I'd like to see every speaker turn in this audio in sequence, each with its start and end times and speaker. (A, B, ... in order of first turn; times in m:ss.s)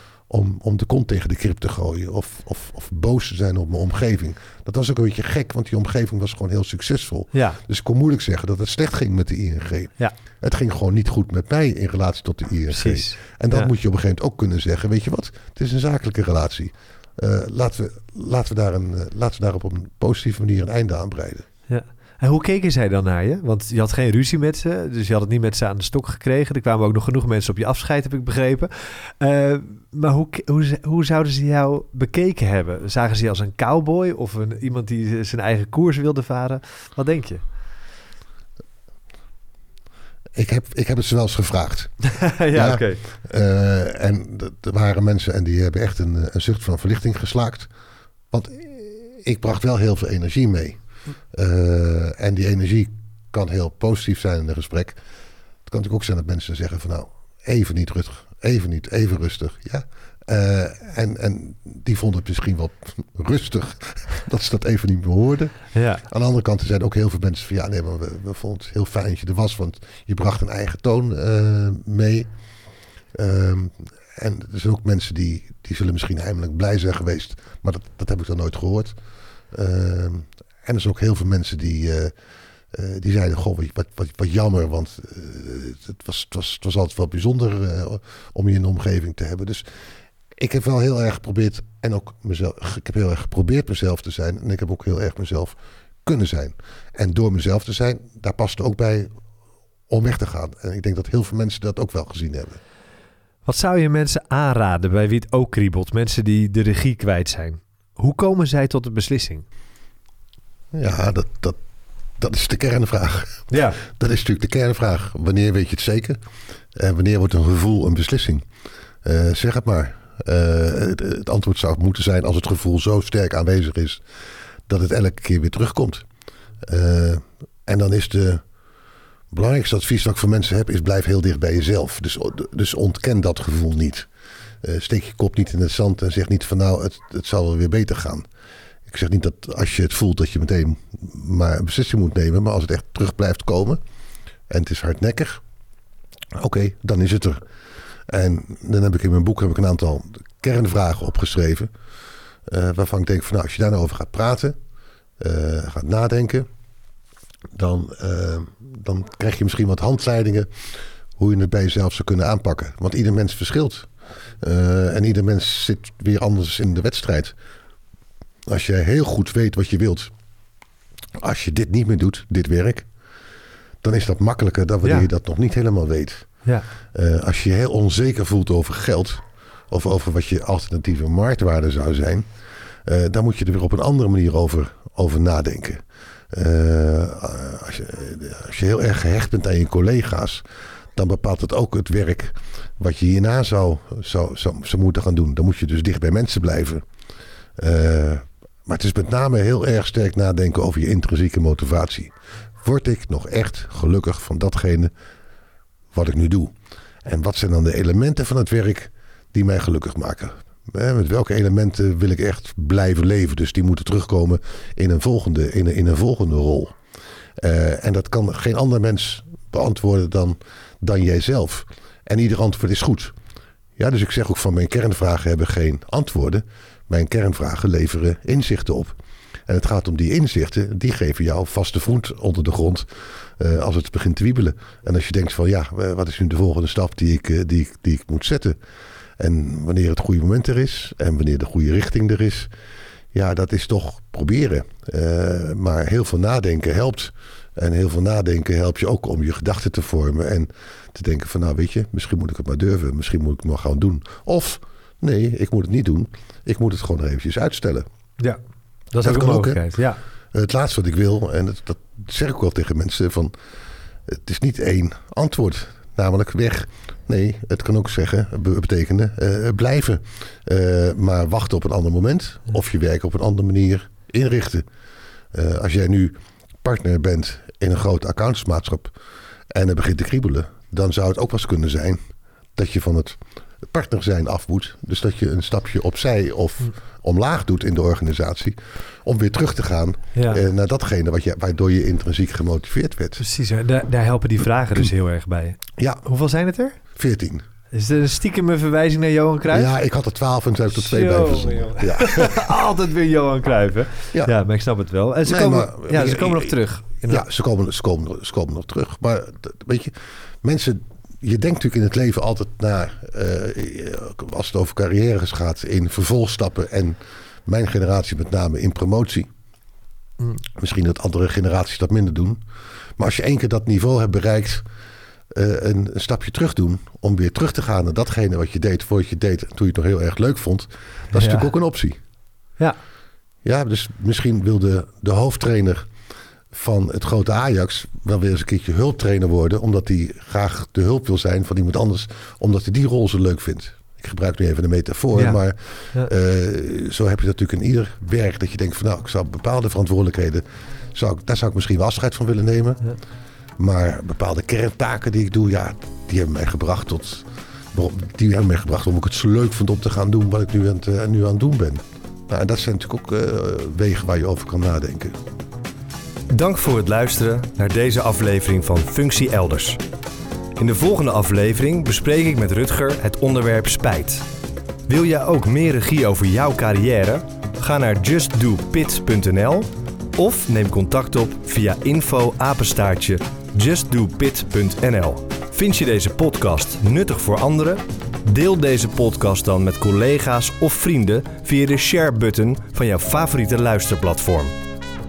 0:00.3-0:21.4 A
0:07.3-0:07.6 B
0:12.7-0:13.7 B
0:21.7-0:37.4 B
0:40.3-0:41.9 A
0:42.0-0:43.0 B
0:42.5-0:47.7 A
0:48.3-0:50.8 A
0:51.3-0:55.0 A
0:55.6-1:12.3 A
1:05.7-1:06.0 B
1:13.1-1:18.9 A
1:19.5-1:22.1 A
1:22.7-1:29.6 A
1:30.4-1:39.1 A
1:39.9-1:42.6 A
1:43.4-1:49.4 B
1:50.7-1:51.6 A
1:52.2-1:56.2 A
1:53.5-1:53.8 B
1:56.7-1:58.4 A
1:59.0-2:04.0 A
2:04.7-2:06.0 A
2:06.6-2:08.4 A
2:09.3-2:14.1 A
2:14.6-2:18.2 A
2:18.9-2:23.8 A
2:24.5-2:25.4 A
2:26.3-2:27.4 A
2:28.1-2:31.7 A
2:32.5-2:34.6 A
2:35.2-2:36.5 A
2:37.5-2:40.5 A
2:41.2-2:43.9 A
2:44.4-2:47.3 A
2:48.4-2:50.1 A
2:51.2-2:52.9 A
2:53.8-2:56.3 A
2:56.9-3:02.3 A
3:02.8-3:10.4 A
3:10.9-3:16.8 A
3:17.6-3:24.9 A
3:25.9-3:36.8 A
3:37.4-3:43.1 A
3:43.8-3:48.9 A
3:49.5-3:58.6 A
3:59.2-4:02.5 A
4:03.1-4:17.9 A
4:18.9-4:20.0 B
4:19.0-4:19.7 A
4:20.3-4:23.3 A
4:24.1-4:34.6 A
4:35.3-4:38.9 A
4:39.5-4:42.0 A
4:42.5-4:53.2 A
4:50.2-4:50.4 B
4:53.2-4:56.8 B
4:55.8-4:56.0 A
4:57.0-4:57.4 A
4:57.7-4:59.7 B
4:59.5-5:02.5 A
5:00.7-5:07.2 B
5:05.2-5:19.3 A
5:20.5-5:22.4 A
5:23.0-5:24.6 A
5:25.3-5:32.0 A
5:31.1-5:31.5 B
5:33.4-5:35.9 A
5:36.5-5:52.8 A
5:53.6-6:05.1 A
6:06.3-6:09.8 C
6:10.6-6:14.2 C
6:14.9-6:34.5 C